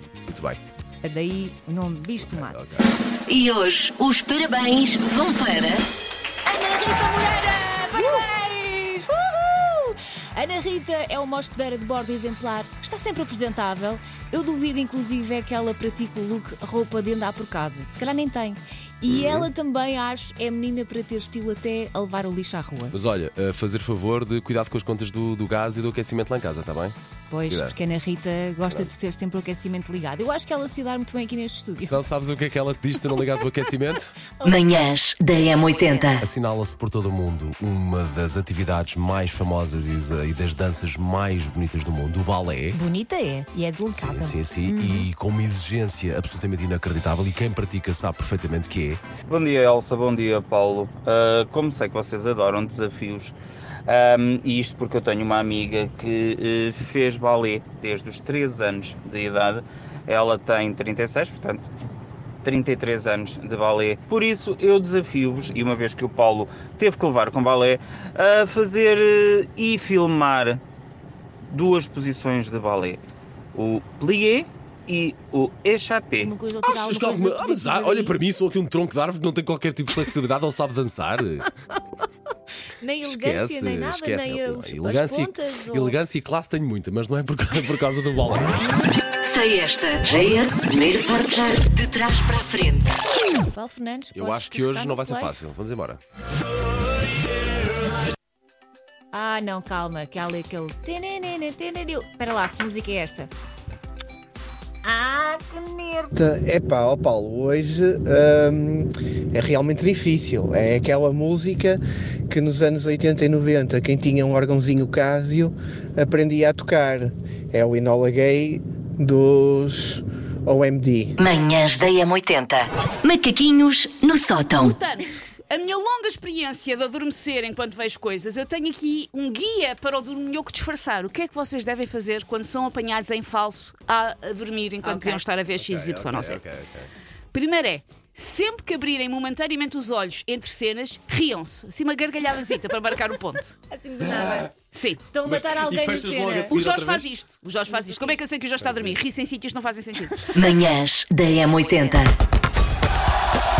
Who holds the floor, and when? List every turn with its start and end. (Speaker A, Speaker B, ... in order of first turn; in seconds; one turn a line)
Speaker A: 0.3-0.6
Speaker B: 1.0-2.5
Speaker A: 2.3-2.9
Speaker C: 3.3-5.8
Speaker B: 6.5-22.9
Speaker A: 19.1-19.5
Speaker A: 22.9-26.9
Speaker B: 27.3-31.9
Speaker A: 27.5-27.8
Speaker A: 31.8-34.1
Speaker C: 34.4-36.3
Speaker A: 36.2-42.8
Speaker B: 42.8-45.0
Speaker A: 44.0-49.0
Speaker D: 49.3-53.4
Speaker D: 53.9-61.7
Speaker D: 62.4-70.6
Speaker D: 71.5-73.0
Speaker D: 73.5-76.3
Speaker B: 76.2-78.1
Speaker A: 76.6-81.5
Speaker B: 82.8-86.0
Speaker A: 83.0-88.6
Speaker C: 89.2-92.9
Speaker B: 93.5-95.3
Speaker A: 94.2-96.0
Speaker B: 99.1-103.3
Speaker B: 104.9-106.1
Speaker E: 106.2-121.2
Speaker C: 121.2-124.8
Speaker F: 124.5-136.4
Speaker A: 135.6-136.9
Speaker F: 137.3-143.5
Speaker B: 143.8-144.5
Speaker A: 144.0-144.5
Speaker F: 144.7-145.0
Speaker B: 145.1-146.5
Speaker A: 145.2-147.1
Speaker F: 146.5-150.3
Speaker B: 147.8-148.2
Speaker A: 148.6-149.0
Speaker C: 150.3-152.1